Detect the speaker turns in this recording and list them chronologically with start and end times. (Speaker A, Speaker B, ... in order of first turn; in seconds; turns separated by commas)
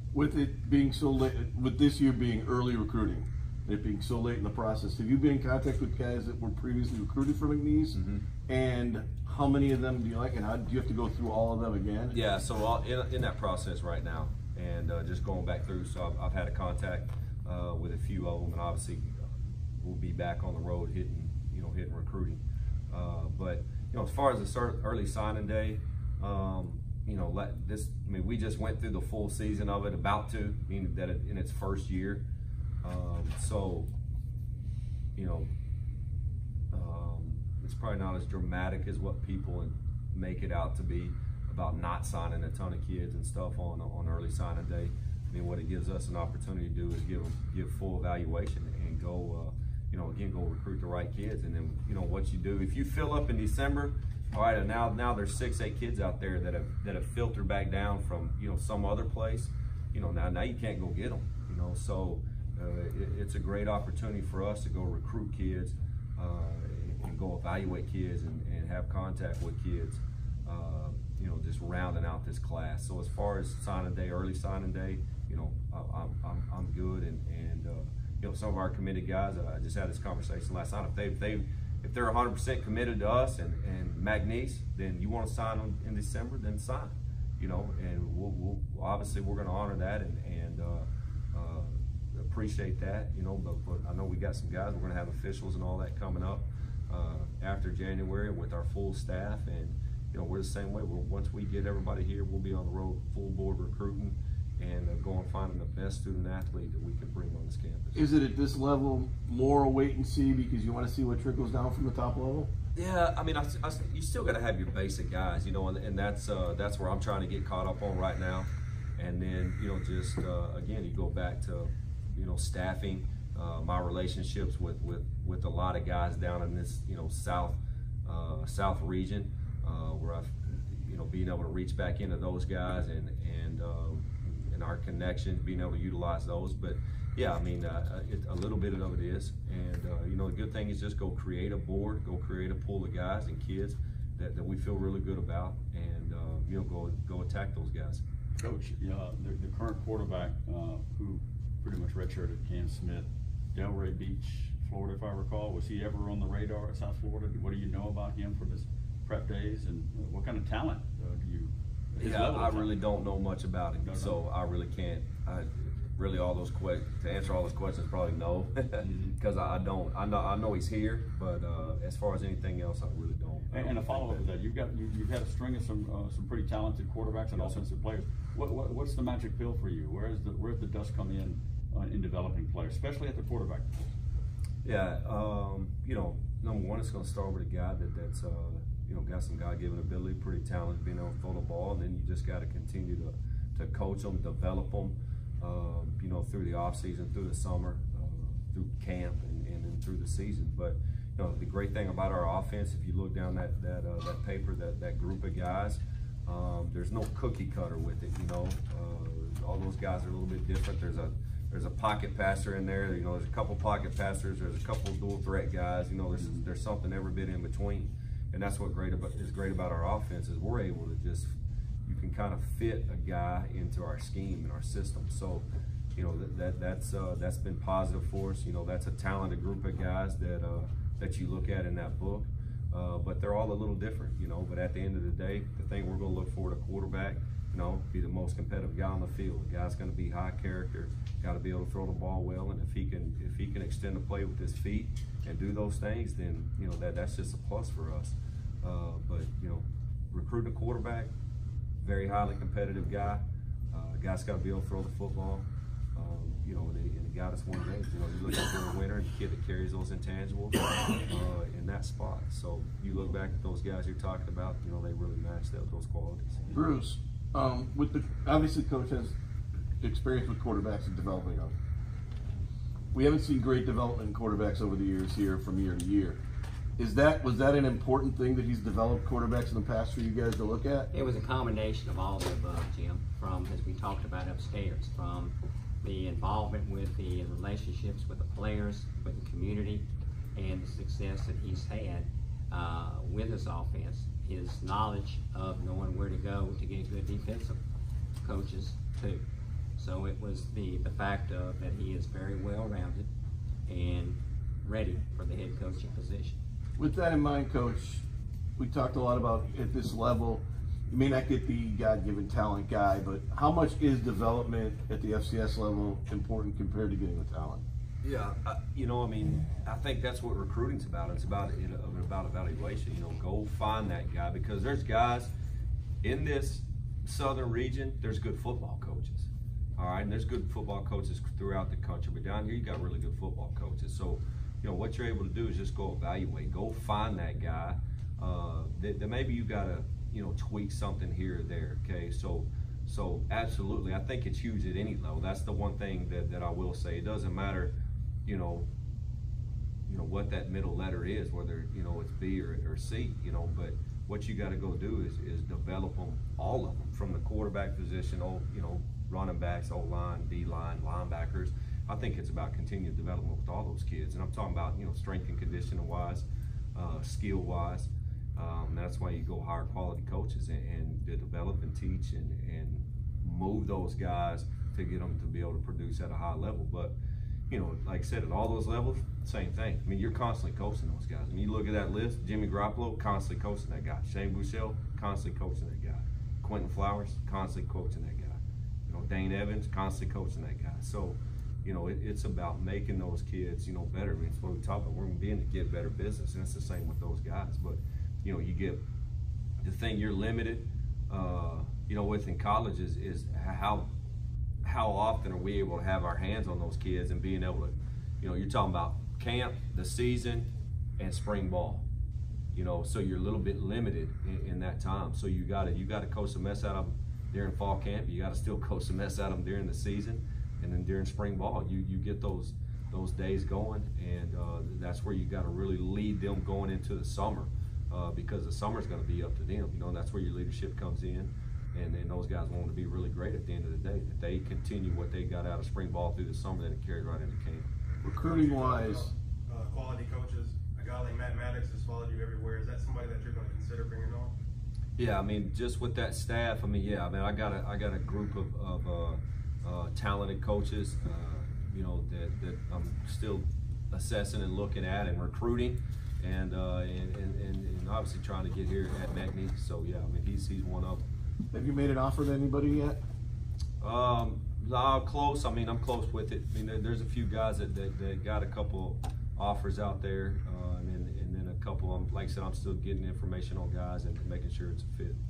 Speaker A: 0.1-12.2, Speaker B: 8.0-8.2, Speaker B: 12.1-32.3, Speaker B: 32.8-33.9, Speaker B: 35.2-35.5, Speaker B: 36.7-108.0, Speaker A: 108.0-112.5, Speaker B: 112.8-148.0, Speaker C: 148.4-162.8, Speaker B: 162.0-174.2, Speaker C: 163.8-164.2, Speaker C: 168.8-169.2, Speaker C: 173.5-183.8, Speaker B: 177.3-177.6, Speaker B: 184.6-251.1, Speaker C: 216.2-216.4, Speaker B: 251.8-266.5, Speaker A: 266.5-269.2, Speaker A: 269.8-271.6, Speaker A: 272.9-276.2, Speaker A: 276.8-280.9, Speaker D: 280.9-297.6, Speaker D: 298.2-299.2, Speaker D: 299.8-303.1, Speaker D: 303.7-306.4, Speaker A: 306.8-308.1, Speaker A: 308.6-317.6, Speaker B: 318.0-325.3, Speaker B: 326.0-347.8, Speaker B: 348.3-348.7, Speaker B: 349.9-377.0, Speaker B: 377.5-398.9, Speaker B: 399.6-403.9, Speaker B: 404.6-411.9, Speaker B: 412.5-437.7, Speaker A: 438.0-439.1, Speaker E: 438.1-444.4, Speaker B: 445.0-461.0, Speaker A: 461.5-463.0, Speaker B: 463.8-475.2